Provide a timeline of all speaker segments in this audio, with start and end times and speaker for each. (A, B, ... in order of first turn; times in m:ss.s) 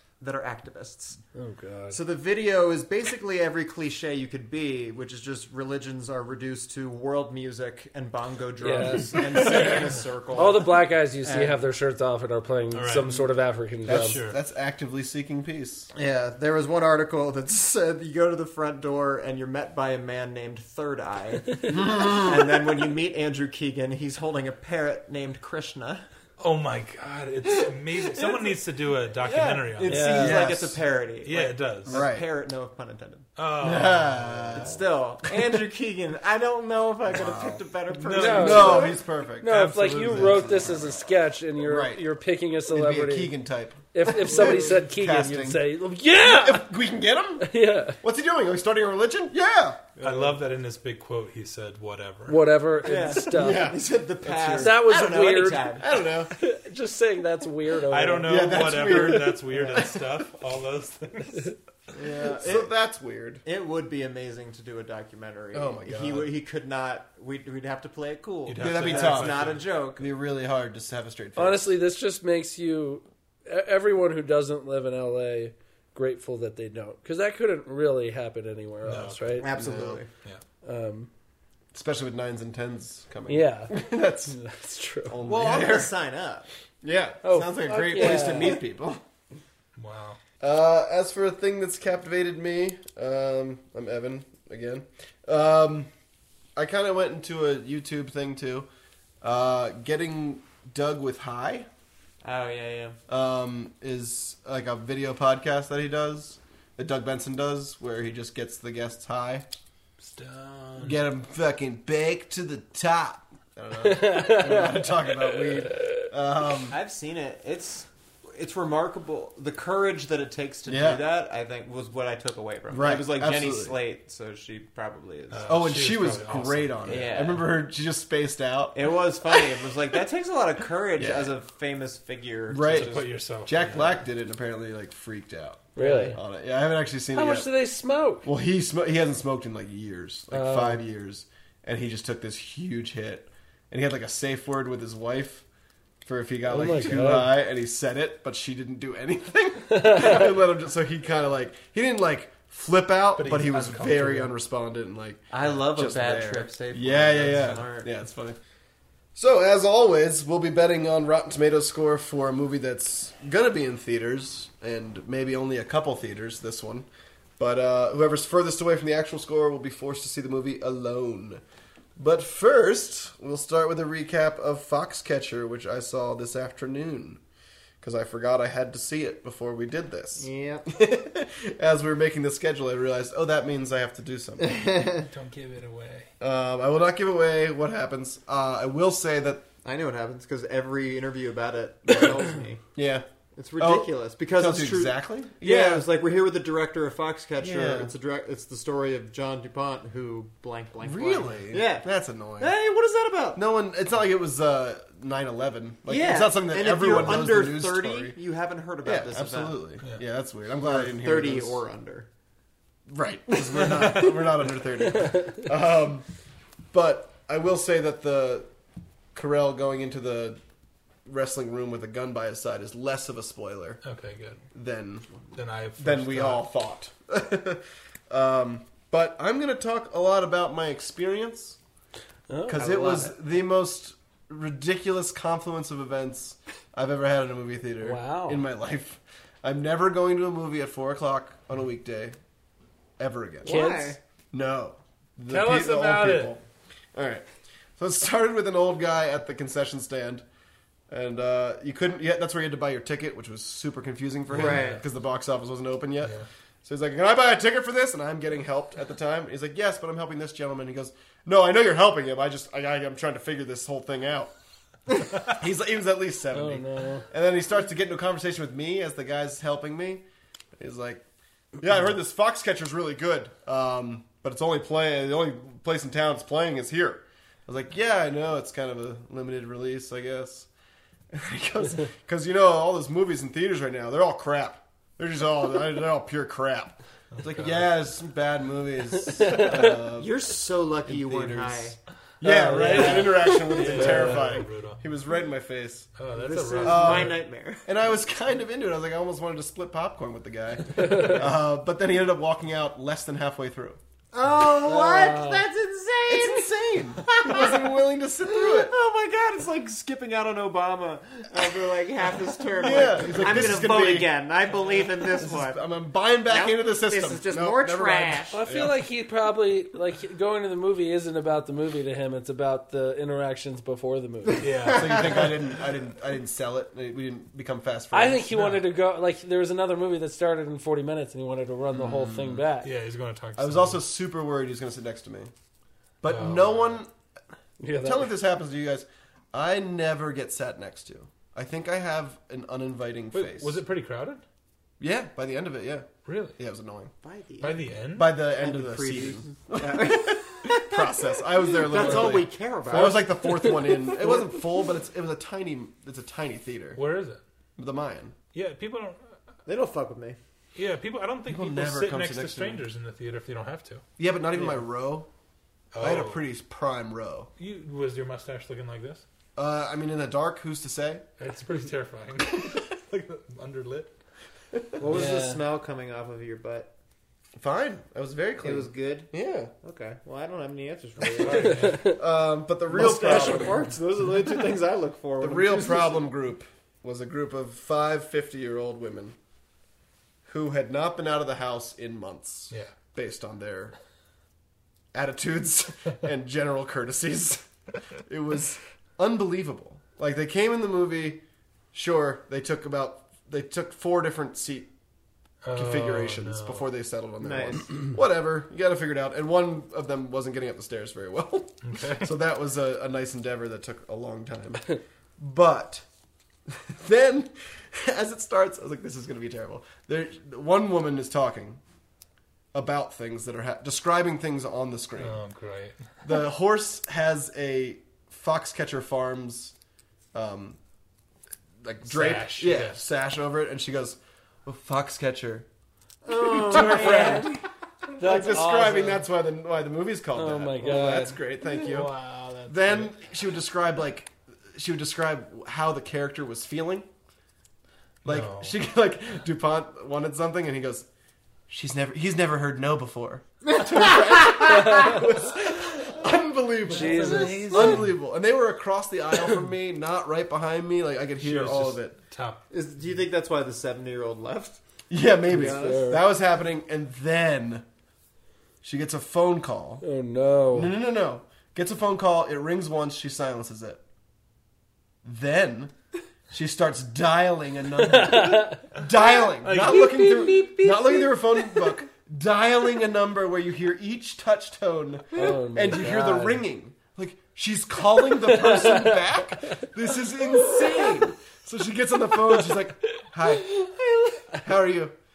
0:00.2-0:01.2 A
0:01.3-0:02.0 B
0:01.9-0:11.6 A
0:08.6-0:09.5 B
0:09.5-0:09.8 C
0:10.3-0:14.2 B
0:12.7-0:13.1 C
0:13.8-0:14.4 C
0:13.8-0:15.9 D
0:15.9-0:26.1 A
0:21.7-0:22.3 D
0:26.4-0:30.1 C
0:29.2-0:33.3 A
0:29.7-0:30.8 D
0:29.9-0:30.5 B
0:31.2-0:32.0 C
0:31.9-0:32.2 D
0:33.4-0:34.8 C
0:33.6-0:34.8 D
0:34.5-0:39.0 A
0:37.1-0:41.0 D
0:37.9-0:38.8 C
0:38.2-0:43.3 B
0:41.6-0:42.0 D
0:42.6-0:49.9 D
0:43.9-0:46.7 B
0:44.3-0:44.7 A
0:47.4-0:48.0 B
0:50.0-0:50.4 A
0:50.0-0:52.4 C
0:52.3-0:53.7 B
0:52.8-0:55.8 A
0:53.1-0:54.9 D
0:54.6-0:55.8 B
0:55.8-0:56.3 D
0:56.3-0:58.6 B
0:57.9-1:01.5 C
0:58.2-1:00.0 D
0:59.5-0:59.8 A
1:01.9-1:02.7 A
1:02.0-1:03.4 D
1:03.4-1:10.0 A
1:05.5-1:06.3 D
1:08.4-1:09.7 C
1:08.6-1:11.7 D
1:11.4-1:19.5 B
1:18.8-1:19.4 C
1:19.4-1:20.1 A
1:19.5-1:20.0 D
1:20.6-1:21.1 B
1:21.7-1:24.4 D
1:23.3-1:25.2 B
1:25.0-1:25.9 D
1:25.2-1:26.5 A
1:26.8-1:29.0 D
1:27.2-1:28.6 B
1:29.8-1:30.2 C
1:30.4-1:35.9 D
1:36.6-1:38.7 D
1:39.2-1:41.7 D
1:42.2-1:43.0 A
1:43.1-1:49.5 D
1:50.0-1:51.0 C
1:50.8-1:56.8 D
1:53.8-1:54.9 B
1:56.7-2:05.6 A
2:00.6-2:01.0 D
2:02.7-2:03.8 D
2:05.3-2:07.3 C
2:05.4-2:08.9 D
2:06.9-2:07.5 A
2:08.7-2:13.1 A
2:11.0-2:11.3 D
2:12.5-2:17.5 D
2:12.6-2:13.9 C
2:15.8-2:16.2 A
2:15.8-2:16.2 B
2:17.1-2:18.3 B
2:18.2-2:25.4 D
2:20.3-2:20.8 B
2:26.0-2:38.4 D
2:26.5-2:27.3 B
2:29.7-2:30.3 B
2:33.2-2:34.3 C
2:35.3-2:37.9 A
2:37.2-2:37.6 C
2:39.1-2:46.9 D
2:47.4-2:51.4 D
2:52.0-2:57.2 D
2:57.8-3:04.6 D
3:00.2-3:00.7 A
3:04.4-3:05.0 A
3:05.0-3:06.1 C
3:06.2-3:09.5 D
3:09.6-3:12.6 A
3:12.7-3:13.0 D
3:13.4-3:21.9 A
3:13.6-3:15.9 D
3:17.4-3:17.9 D
3:20.8-3:22.5 D
3:22.4-3:23.4 A
3:23.3-3:28.2 D
3:25.9-3:29.6 A
3:28.8-3:31.6 D
3:30.6-3:32.1 A
3:32.9-3:36.0 D
3:36.7-3:38.5 D
3:39.1-3:40.4 D
3:41.0-3:43.8 D
3:43.8-3:44.4 C
3:44.5-3:45.1 D
3:45.3-3:46.4 C
3:45.8-3:51.6 D
3:52.3-3:52.9 B
3:52.5-4:02.1 D
3:52.5-3:53.1 A
3:57.8-3:58.4 B
4:03.0-4:03.7 D
4:03.4-4:04.0 A
4:03.4-4:04.0 B
4:04.3-4:06.4 D
4:05.3-4:06.3 B
4:05.3-4:05.6 C
4:06.9-4:10.2 D
4:10.9-4:24.3 D
4:14.3-4:14.8 A
4:14.3-4:14.8 C
4:25.2-4:30.0 D
4:26.3-4:27.0 B
4:30.6-4:31.0 D
4:31.6-4:40.5 D
4:41.1-4:50.1 D
4:47.1-4:47.7 C
4:49.2-4:49.5 B
4:49.5-4:51.8 A
4:50.8-4:55.9 D
4:52.2-4:54.1 B
4:52.6-4:54.8 C
4:53.6-4:54.0 A
4:56.0-4:57.2 C
4:56.1-4:57.6 A
4:56.6-5:03.8 D
5:04.1-5:15.6 A
5:04.7-5:05.4 B
5:06.1-5:08.7 D
5:12.6-5:14.1 D
5:15.0-5:18.8 D
5:16.3-5:18.4 A
5:18.3-5:24.4 B
5:24.4-5:25.3 C
5:24.7-5:28.3 D
5:27.9-5:32.7 B
5:28.3-5:28.6 C
5:31.7-5:32.4 D
5:32.6-5:33.8 C
5:33.4-5:35.3 D
5:36.0-5:36.9 D
5:36.0-5:36.8 C
5:37.6-5:38.1 B
5:37.8-5:43.6 D
5:43.1-5:44.2 C
5:44.8-5:46.9 D
5:46.0-5:46.4 C
5:47.0-5:47.7 A
5:47.4-5:48.2 C
5:47.9-5:56.8 D
5:48.3-5:54.3 A
5:56.7-5:57.2 C
5:57.6-5:58.1 D
5:58.3-5:59.2 C
5:59.5-6:00.2 A
6:00.5-6:03.8 C
6:01.2-6:02.6 D
6:04.0-6:05.1 D
6:05.7-6:06.2 C
6:05.8-6:07.3 D
6:07.4-6:09.0 C
6:09.4-6:11.0 D
6:11.2-6:13.9 C
6:14.8-6:16.7 A
6:14.9-6:15.4 B
6:17.4-6:19.5 D
6:18.4-6:19.1 A
6:19.6-6:21.8 A
6:21.2-6:21.8 C
6:21.2-6:23.7 D
6:21.6-6:22.0 B
6:22.7-6:26.0 A
6:25.2-6:29.2 D
6:30.2-6:33.7 D
6:34.9-6:37.5 D
6:38.0-6:44.7 D
6:45.4-6:46.6 C
6:45.5-6:55.8 D
6:47.2-6:47.7 A
6:51.6-6:52.1 C
6:56.5-7:01.6 D
7:02.5-7:05.2 D
7:05.0-7:05.8 C
7:06.0-7:09.5 D
7:10.1-7:10.6 D
7:11.6-7:15.5 D
7:11.8-7:12.8 C
7:16.0-7:17.4 A
7:16.1-7:17.4 D
7:18.0-7:19.0 B
7:18.0-7:21.9 D
7:20.1-7:22.4 B
7:21.6-7:22.8 C
7:22.4-7:26.9 D
7:28.0-7:28.6 C
7:28.0-7:30.9 D
7:31.5-7:42.0 D
7:33.6-7:34.9 A
7:34.6-7:34.9 B
7:36.7-7:37.8 B
7:36.9-7:37.9 C
7:41.2-7:42.4 C
7:42.5-7:44.6 A
7:44.9-7:47.6 D
7:45.3-7:46.0 B
7:45.3-7:45.8 A
7:48.6-7:49.8 D
7:49.8-7:50.8 B
7:50.5-7:53.8 D
7:55.0-7:55.7 D
7:56.3-8:13.8 D
7:57.8-7:58.7 B
7:59.4-8:00.3 C
8:05.1-8:06.4 B
8:08.2-8:09.0 B
8:14.3-8:14.9 D